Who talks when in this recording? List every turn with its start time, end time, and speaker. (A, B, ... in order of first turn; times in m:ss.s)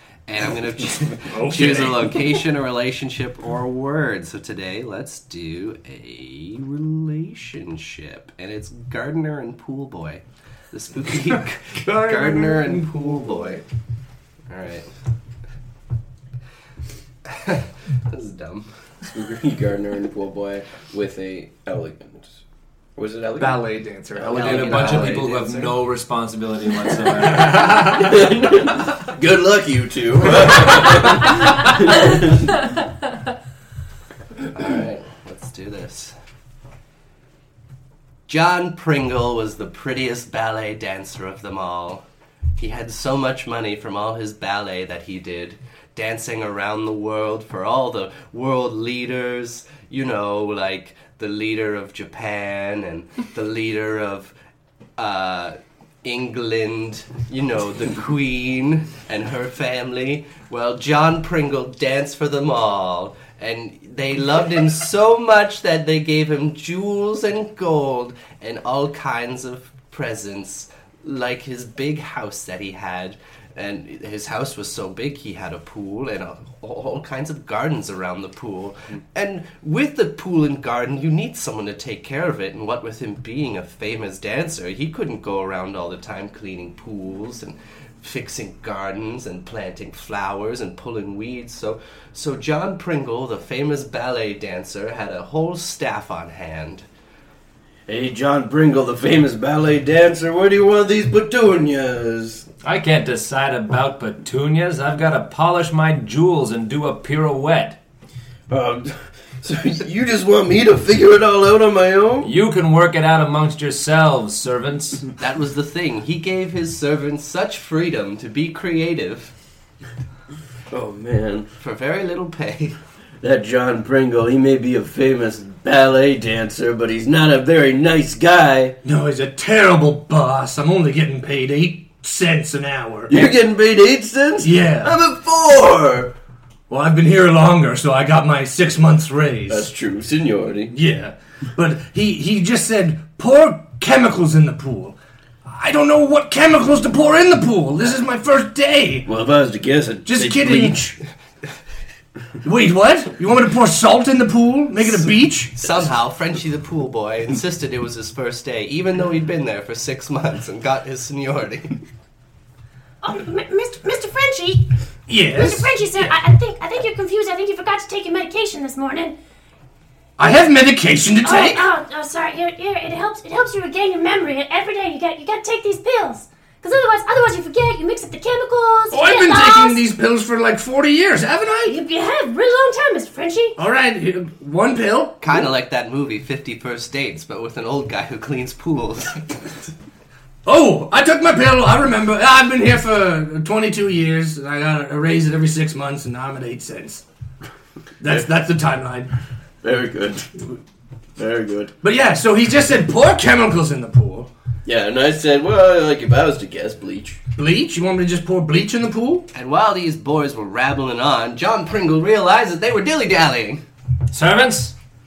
0:00.3-0:13.6 A
0:01.3-0:02.2 B
0:12.0-0:13.6 B
0:14.5-0:14.9 A
0:17.3-0:18.7 A
0:19.0-0:22.4 C
0:23.0-0:24.4 C
0:23.4-0:25.3 B
0:24.2-0:25.8 A
0:24.3-0:27.9 D
0:27.5-0:27.8 B
0:27.7-0:32.4 C
0:34.5-0:36.1 A
0:38.3-0:42.0 A
0:42.6-0:54.3 A
0:55.0-1:36.8 A
1:37.9-1:42.4 C
1:42.6-1:47.8 D
1:48.5-1:52.3 C
1:52.2-1:55.0 D
1:55.2-1:59.3 A
2:00.7-2:01.5 C
2:01.6-2:02.8 A
2:03.2-2:08.8 C
2:08.8-2:13.3 B
2:13.1-2:16.1 C
2:14.4-2:14.9 B
2:16.7-2:19.6 B
2:19.5-2:20.7 C
2:20.7-2:29.1 B
2:29.0-2:30.9 C
2:30.0-2:31.0 B
2:32.4-2:35.6 B
2:35.6-2:41.8 A
2:43.0-2:44.7 E
2:45.1-2:46.1 B
2:45.2-2:49.1 E
2:50.2-2:51.6 B
2:51.2-2:59.8 E
2:58.9-3:01.8 B
3:01.6-3:03.6 E
3:03.6-3:05.5 B
3:05.2-3:09.2 A
3:10.4-3:17.0 B
3:18.0-3:19.1 B
3:19.6-3:20.4 C
3:21.2-3:21.7 C
3:21.8-3:24.3 B
3:24.6-3:27.2 C
3:27.4-3:29.2 B
3:29.3-3:33.6 A
3:34.1-3:34.7 D